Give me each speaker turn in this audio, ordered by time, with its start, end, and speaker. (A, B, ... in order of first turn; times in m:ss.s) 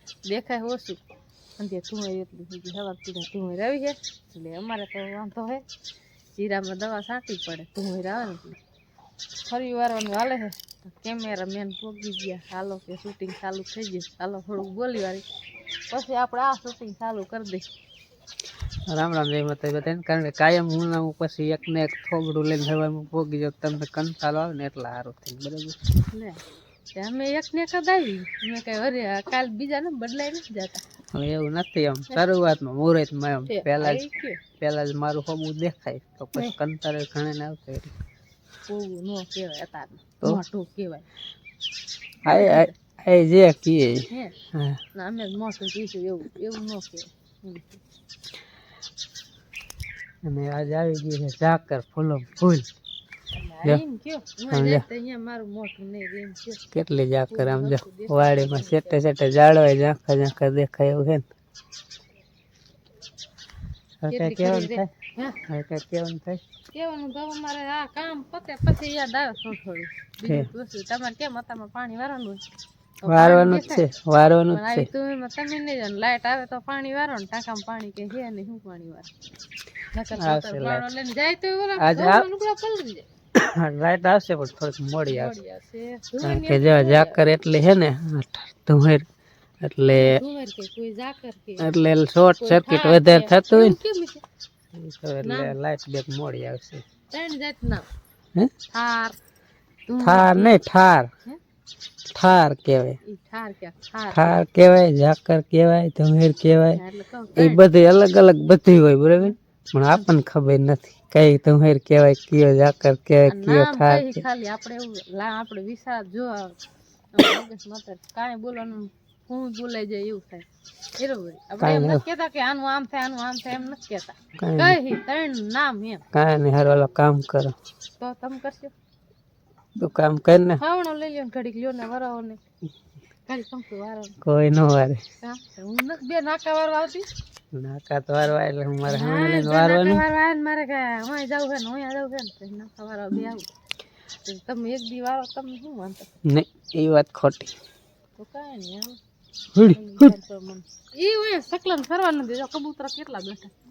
0:00.2-0:01.0 A
0:01.6-0:05.6 A
0:06.3-0:08.6 A
0:09.5-0:15.2 A
0:15.9-0:17.7 A
0:18.9-0:25.8 B
0:26.1-0:26.4 A
0:26.9-0:30.8 A
0:31.1-0:34.0 B
0:33.5-0:34.4 A
0:34.6-0:37.9 B
0:38.7-0:41.0 A
0:42.2-0:44.8 B
0:42.3-0:42.7 A
0:44.1-0:44.3 A
0:44.9-0:47.8 A
0:50.2-0:52.6 B
0:53.3-0:56.6 A
0:54.5-0:54.8 B
0:56.7-1:01.2 B
0:57.3-0:59.0 A
1:04.0-1:04.9 B
1:04.1-1:05.4 A
1:05.5-1:06.4 B
1:06.7-1:12.4 A
1:13.0-1:13.8 A
1:13.0-1:14.9 B
1:14.5-1:19.1 A
1:19.9-1:23.1 A
1:20.2-1:20.9 B
1:21.8-1:22.2 B
1:23.4-1:25.3 B
1:25.1-1:27.2 A
1:26.2-1:29.0 B
1:29.6-1:30.2 B
1:29.9-1:31.7 A
1:31.6-1:33.8 B
1:32.4-1:34.2 A
1:34.7-1:36.8 B
1:35.2-1:35.5 A
1:37.1-1:37.8 A
1:38.7-1:39.2 A
1:39.9-1:40.6 A
1:40.0-1:41.1 B
1:42.1-1:43.0 B
1:43.0-1:44.4 A
1:44.1-1:46.8 B
1:46.8-1:47.6 A
1:47.4-1:54.2 B
1:53.3-1:56.6 A
1:57.1-2:00.4 A
2:01.0-2:06.0 A
2:01.6-2:02.0 B
2:04.4-2:04.8 B
2:06.1-2:07.5 B
2:08.0-2:08.7 A
2:09.8-2:10.6 B
2:10.6-2:12.4 A
2:13.3-2:14.2 A
2:14.2-2:15.0 B
2:15.2-2:17.1 A
2:17.5-2:20.0 B
2:18.9-2:23.5 A
2:24.2-2:26.1 A
2:26.2-2:27.5 B
2:28.2-2:29.0 A
2:29.5-2:30.1 B
2:29.7-2:33.5 A